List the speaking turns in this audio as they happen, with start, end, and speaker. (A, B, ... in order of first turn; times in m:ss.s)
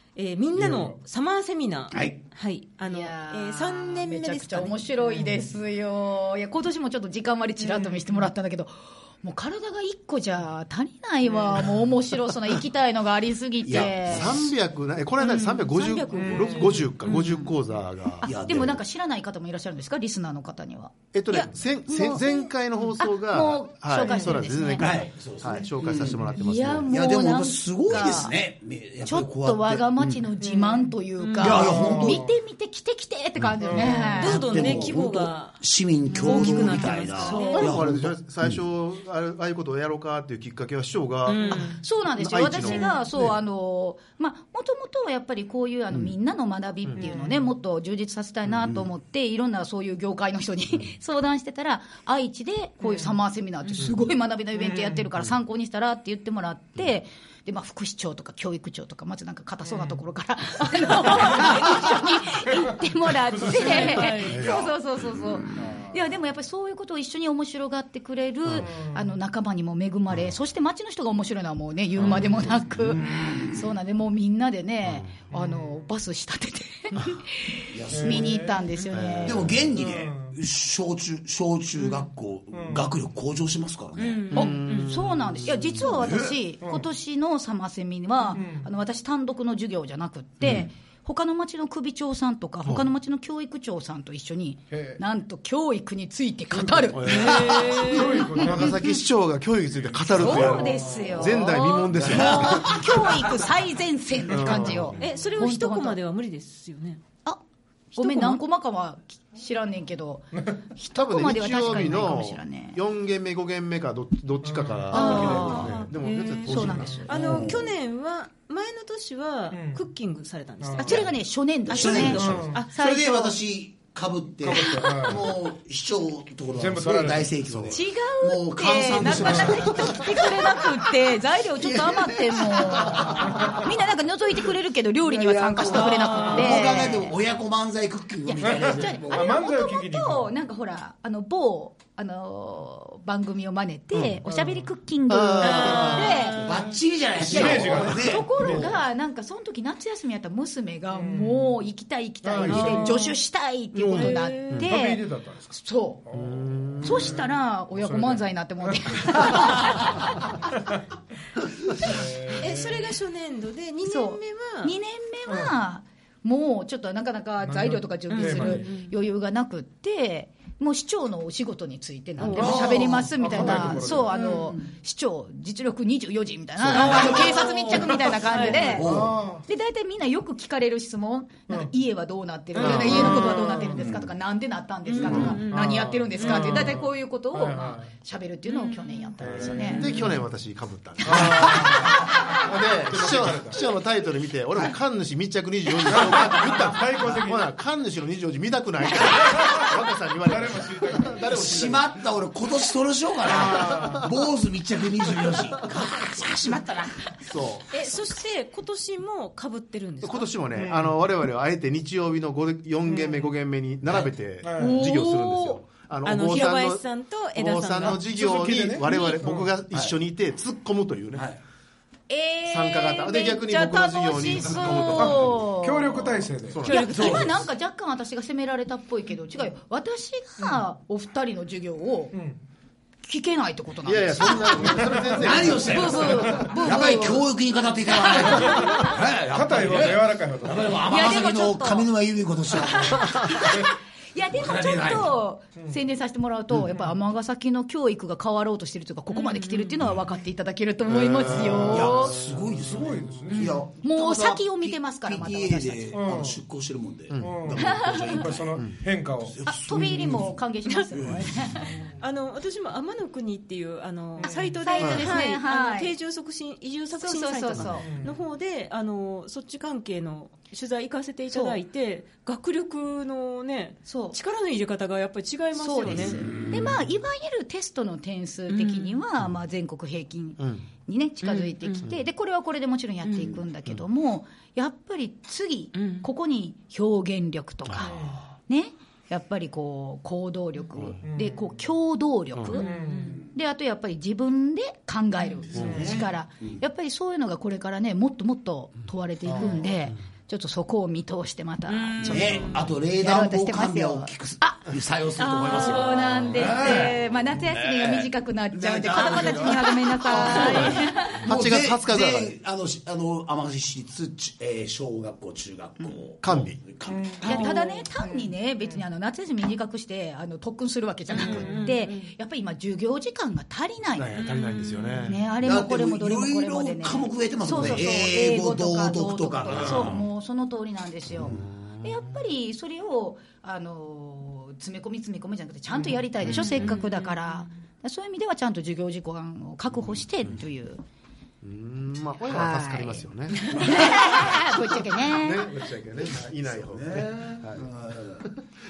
0:00.2-0:04.9 A
0:00.6-0:01.0 B
0:01.9-0:02.2 C
0:02.8-0:14.4 D
0:05.2-0:05.5 B
0:07.6-0:08.2 B
0:13.6-0:14.5 C
0:13.7-0:18.3 E
0:15.2-0:17.5 A
0:16.2-0:16.9 B
0:18.2-0:25.1 D
0:18.2-0:18.8 C
0:21.1-0:26.9 E
0:24.8-0:30.3 C
0:26.3-0:28.4 D
0:29.0-0:34.9 D
0:30.4-0:30.9 B
0:31.2-0:31.7 A
0:31.4-0:32.3 C
0:31.4-0:32.3 B
0:33.6-0:34.4 B
0:33.8-0:38.6 C
0:34.2-0:37.8 A
0:36.2-0:37.8 D
0:37.6-0:42.9 E
0:41.2-0:41.8 A
0:41.4-1:19.6 D
0:42.6-0:43.0 A
0:47.0-0:47.5 B
0:48.6-0:48.9 C
0:52.8-0:53.2 B
0:54.6-0:55.0 B
1:01.4-1:01.8 C
1:03.4-1:04.5 A
1:03.4-1:04.0 B
1:04.2-1:04.7 E
1:05.6-1:06.0 B
1:08.7-1:09.1 B
1:12.0-1:12.4 E
1:12.9-1:13.5 C
1:14.8-1:15.2 E
1:15.3-1:15.7 B
1:17.7-1:18.4 C
1:17.9-1:18.8 B
1:18.9-1:19.7 E
1:19.2-1:24.3 C
1:19.8-1:20.4 B
1:22.5-1:22.9 B
1:24.0-1:25.0 A
1:24.3-1:25.9 E
1:24.3-1:38.8 D
1:25.8-1:26.4 C
1:28.4-1:28.7 B
1:30.4-1:30.7 E
1:34.7-1:35.0 B
1:36.9-1:42.8 E
1:37.0-1:38.3 A
1:37.1-1:37.6 C
1:37.8-1:38.9 B
1:39.9-1:41.4 B
1:40.1-1:46.0 D
1:41.9-1:43.2 C
1:44.3-1:45.1 E
1:45.0-1:47.0 A
1:47.9-1:52.8 D
1:48.0-1:48.4 A
1:51.0-1:57.0 E
1:54.4-1:55.4 B
1:54.9-1:55.9 D
1:54.9-2:01.1 A
1:56.4-1:57.4 D
1:56.9-1:57.5 B
1:57.1-1:57.8 C
1:59.5-1:59.8 B
2:00.6-2:01.0 B
2:00.8-2:03.4 D
2:01.7-2:10.6 C
2:01.7-2:02.7 A
2:02.2-2:02.6 B
2:04.4-2:05.3 B
2:04.7-2:04.9 D
2:06.6-2:07.6 B
2:07.5-2:07.8 E
2:07.7-2:17.2 D
2:09.1-2:09.6 B
2:11.6-2:13.6 C
2:15.0-2:19.3 C
2:15.9-2:16.9 A
2:18.3-2:26.6 D
2:18.5-2:20.3 B
2:23.9-2:24.2 E
2:24.3-2:24.7 B
2:25.1-2:26.2 E
2:25.4-2:26.4 A
2:26.1-2:28.7 C
2:27.2-2:28.8 B
2:27.2-2:36.0 D
2:30.9-2:31.6 B
2:32.2-2:33.1 B
2:32.4-2:33.2 A
2:33.8-2:34.7 E
2:33.9-2:40.8 B
2:33.9-2:34.7 A
2:36.1-2:37.2 E
2:36.8-2:40.5 D
2:41.8-2:42.9 B
2:42.4-2:44.8 A
2:43.8-3:10.0 D
2:45.3-2:45.5 B
2:47.4-2:48.7 B
2:48.1-2:48.9 A
2:52.2-2:53.0 A
2:52.3-2:53.9 C
2:52.4-2:54.2 B
2:54.1-2:54.5 A
2:56.6-2:57.9 C
2:56.7-2:58.8 A
2:58.3-2:59.4 B
2:58.4-2:59.2 C
3:02.6-3:03.7 A
3:02.6-3:03.2 E
3:03.0-3:03.7 B
3:03.7-3:04.1 C
3:04.9-3:06.8 A
3:05.1-3:07.9 B
3:08.5-3:09.9 A
3:09.2-3:10.0 B
3:09.7-3:22.0 E
3:11.0-3:13.6 B
3:11.1-3:12.0 D
3:15.8-3:17.5 B
3:19.2-3:19.7 B
3:20.2-3:21.3 B
3:21.2-3:27.3 C
3:23.3-3:24.1 B
3:27.2-3:27.7 E
3:27.7-3:30.4 A
3:30.0-3:41.3 E
3:30.6-3:31.0 B
3:34.4-3:34.8 B
3:34.5-3:35.6 D
3:36.0-3:38.0 A
3:37.9-3:39.5 B
3:41.1-3:41.4 C
3:42.1-3:52.2 D
3:42.5-3:45.4 E
3:44.9-3:46.6 B
3:46.5-3:47.2 E
3:46.6-3:47.3 A
3:46.8-3:47.4 C
3:52.1-3:52.4 B
3:53.0-3:57.3 D
3:53.8-3:56.6 E
3:54.7-3:55.5 B
3:55.2-4:03.3 C
3:57.9-3:58.9 D
3:58.2-4:00.8 B
4:00.7-4:01.9 D
4:02.6-4:12.2 D
4:04.3-4:05.2 C
4:09.1-4:09.9 A
4:10.9-4:12.4 E
4:11.4-4:18.6 C
4:12.5-4:13.6 B
4:13.4-4:16.0 D
4:15.9-4:16.4 B
4:17.1-4:17.5 E
4:17.2-4:19.4 B
4:17.6-4:18.2 D
4:19.2-4:20.4 C
4:19.4-4:21.8 D
4:20.9-4:21.6 C
4:21.6-4:22.0 B
4:22.0-4:36.4 A
4:24.2-4:24.6 B
4:24.6-4:25.9 D
4:24.8-4:25.1 E
4:26.9-4:27.9 D
4:27.8-4:28.2 B
4:31.3-4:31.6 D
4:33.9-4:34.2 D
4:35.5-4:52.7 D
4:36.3-4:36.7 C
4:38.5-4:39.0 A
4:40.4-4:40.6 E
4:41.2-4:41.9 A
4:43.0-4:43.4 A
4:45.8-4:46.1 A
4:47.8-4:48.2 B
4:51.0-4:51.4 B
4:52.5-4:53.2 A
4:52.6-4:53.2 B
4:53.3-5:04.6 D
4:55.4-4:55.7 A
4:55.5-4:56.6 C
4:55.5-4:55.9 E
5:01.7-5:02.8 A
5:02.0-5:17.6 C
5:05.2-5:06.9 A
5:05.2-5:11.3 D
5:10.2-5:10.8 A
5:11.3-5:12.3 E
5:16.2-5:16.6 E
5:16.9-5:17.4 B
5:17.2-5:24.2 D
5:17.2-5:17.9 A
5:21.1-5:22.1 A
5:21.3-5:21.7 B
5:24.0-5:25.2 E
5:24.2-5:25.1 A
5:25.0-5:40.8 D
5:25.4-5:30.1 C
5:29.5-5:29.9 E
5:31.1-5:31.4 C
5:31.2-5:32.0 E
5:35.8-5:36.7 E
5:36.2-5:37.2 A
5:41.4-5:44.4 E
5:42.3-5:45.5 D
5:45.0-5:47.7 E
5:46.6-5:48.3 C